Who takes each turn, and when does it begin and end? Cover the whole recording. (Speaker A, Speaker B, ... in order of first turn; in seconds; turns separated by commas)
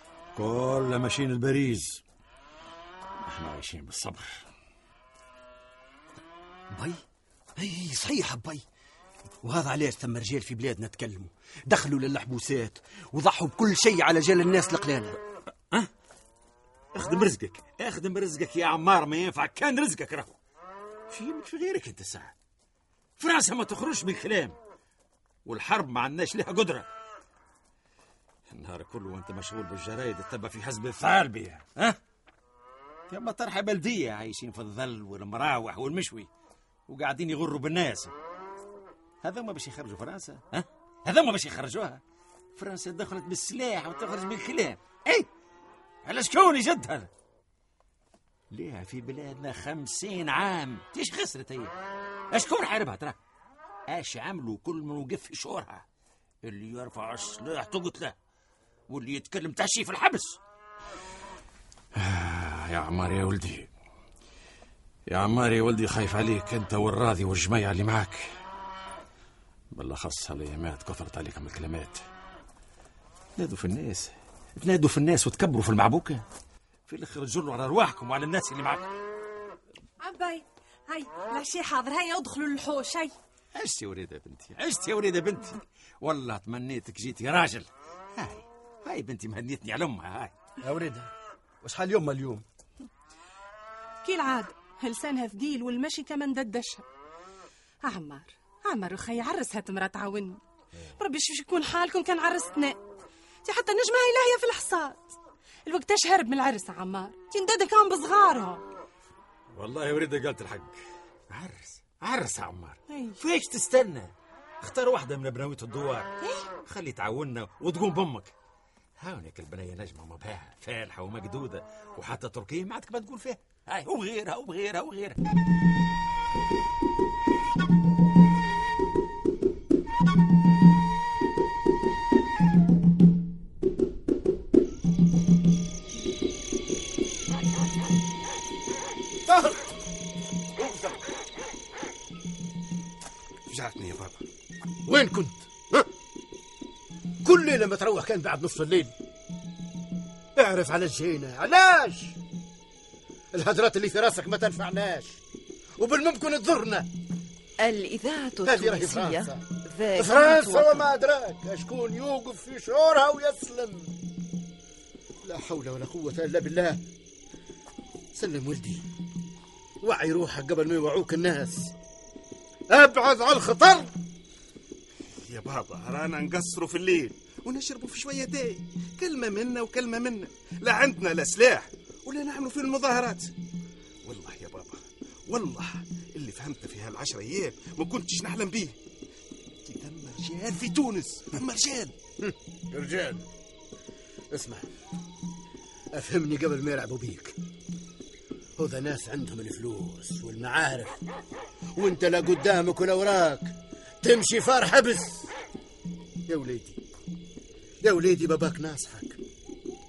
Speaker A: 0.3-2.0, Speaker A: 3.2-4.3, Speaker B: 6.7-7.0, Speaker B: 7.5-8.6, Speaker B: 9.4-15.2, Speaker A: 16.9-20.3, Speaker A: 21.1-22.3, Speaker A: 23.2-24.6, Speaker A: 25.4-26.9, Speaker A: 28.5-32.0, Speaker A: 33.1-36.3, Speaker A: 36.9-38.1, Speaker A: 39.2-42.0, Speaker A: 42.5-45.3, Speaker A: 46.0-47.1, Speaker A: 48.5-51.7, Speaker A: 52.3-53.2, Speaker A: 53.9-55.8, Speaker A: 56.4-58.1, Speaker A: 58.9-60.4, Speaker A: 62.0-63.7, Speaker A: 65.1-68.3, Speaker A: 69.7-72.0, Speaker A: 73.4-76.2, Speaker A: 76.9-78.9, Speaker C: 80.0-83.1, Speaker A: 83.5-90.3, Speaker B: 90.6-91.1, Speaker B: 91.6-92.4, Speaker C: 94.0-96.8, Speaker C: 99.5-100.3, Speaker C: 101.0-102.7, Speaker C: 103.5-104.7, Speaker C: 105.7-108.6, Speaker A: 109.5-110.8, Speaker A: 111.3-116.1, Speaker A: 116.6-118.3, Speaker A: 119.0-125.2, Speaker D: 139.3-139.6, Speaker D: 140.6-140.9, Speaker E: 143.5-144.2, Speaker D: 144.8-145.8, Speaker D: 147.2-148.9, Speaker D: 150.3-152.2, Speaker D: 153.3-155.2, Speaker D: 155.8-156.9, Speaker F: 157.6-160.9, Speaker D: 158.4-159.4, Speaker D: 159.9-163.9, Speaker D: 165.2-166.8, Speaker D: 168.1-168.8, Speaker D: 169.8-171.7, Speaker D: 172.7-173.9, Speaker E: 175.3-183.3, Speaker E: 184.0-188.8, Speaker E: 189.7-191.9, Speaker D: 192.7-193.2, Speaker D: 194.3-194.7, Speaker D: 195.9-197.3, Speaker D: 198.6-201.0, Speaker D: 201.8-203.5, Speaker D: 204.0-205.3, Speaker D: 206.3-206.8, Speaker D: 207.8-209.2